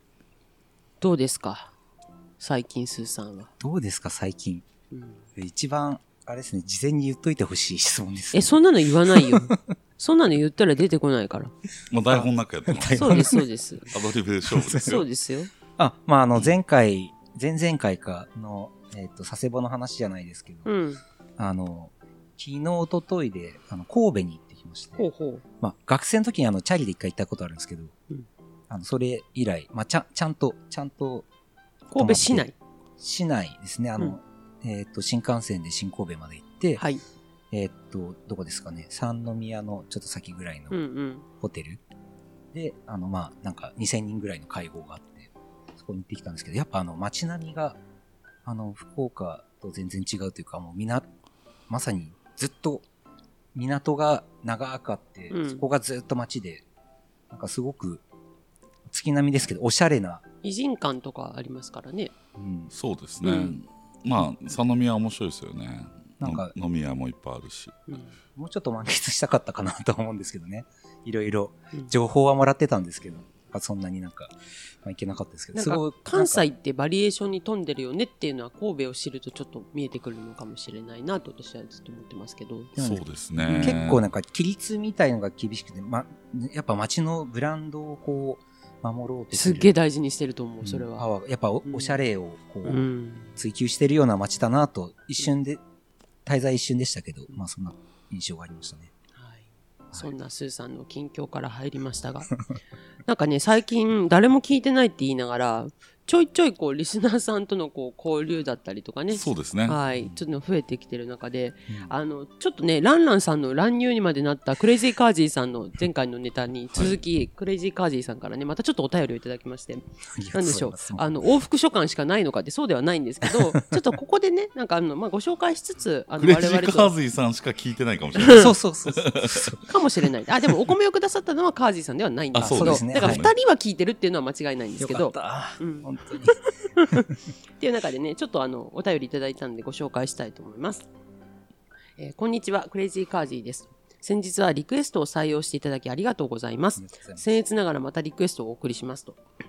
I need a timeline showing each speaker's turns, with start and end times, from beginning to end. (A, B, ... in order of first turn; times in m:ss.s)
0:01.0-0:01.7 A
0:02.4-0:03.5 A
0:03.6-0:04.6 B
0:04.9-0:05.2 A
0:05.4-0:08.6 B
0:08.3-0:11.5 A
0:09.1-0:09.6 B
0:11.9-0:13.3 C
0:12.1-0:13.4 B
0:13.0-0:13.9 A
0:13.9-0:15.1 C
0:14.5-0:15.0 B
0:14.8-0:15.5 A
0:15.8-0:20.7 B
0:20.6-0:21.0 A
0:21.4-0:25.1 B
0:25.0-0:25.4 A
0:25.6-0:27.9 B
0:28.7-0:31.3 B
0:31.9-0:32.5 A
0:31.9-0:36.8 B
0:36.8-0:37.0 A
0:37.5-0:40.8 B
0:40.7-0:41.2 A
0:41.4-0:41.8 B
0:42.5-0:47.8 B
0:48.5-0:51.1 B
0:51.7-0:52.8 B
0:53.6-0:56.6 B
0:55.3-0:55.6 A
0:57.3-0:58.0 B
0:58.9-1:00.2 B
1:00.4-1:02.1 A
1:02.4-1:02.7 B
1:02.7-1:07.8 C
1:03.2-1:03.6 A
1:06.2-1:06.5 B
1:07.9-1:08.1 A
1:08.4-1:16.4 B
1:15.5-1:22.7 A
1:22.8-1:23.0 B
1:22.8-1:24.0 C
1:23.4-1:23.9 A
1:23.6-1:29.7 B
1:29.3-1:31.1 A
1:30.6-1:35.6 B
1:31.7-1:32.0 A
1:32.6-1:33.3 A
1:36.3-1:38.9 B
1:39.2-1:42.4 A
1:43.1-2:06.9 A
1:49.1-1:49.8 C
2:00.2-2:01.2 B
2:06.2-2:09.5 C
2:08.2-2:08.5 A
2:08.3-2:09.6 B
2:09.7-2:17.1 A
2:12.4-2:13.3 B
2:12.4-2:13.3 C
2:14.8-2:16.4 B
2:17.6-2:20.9 A
2:22.0-2:29.2 A
2:26.8-2:27.3 B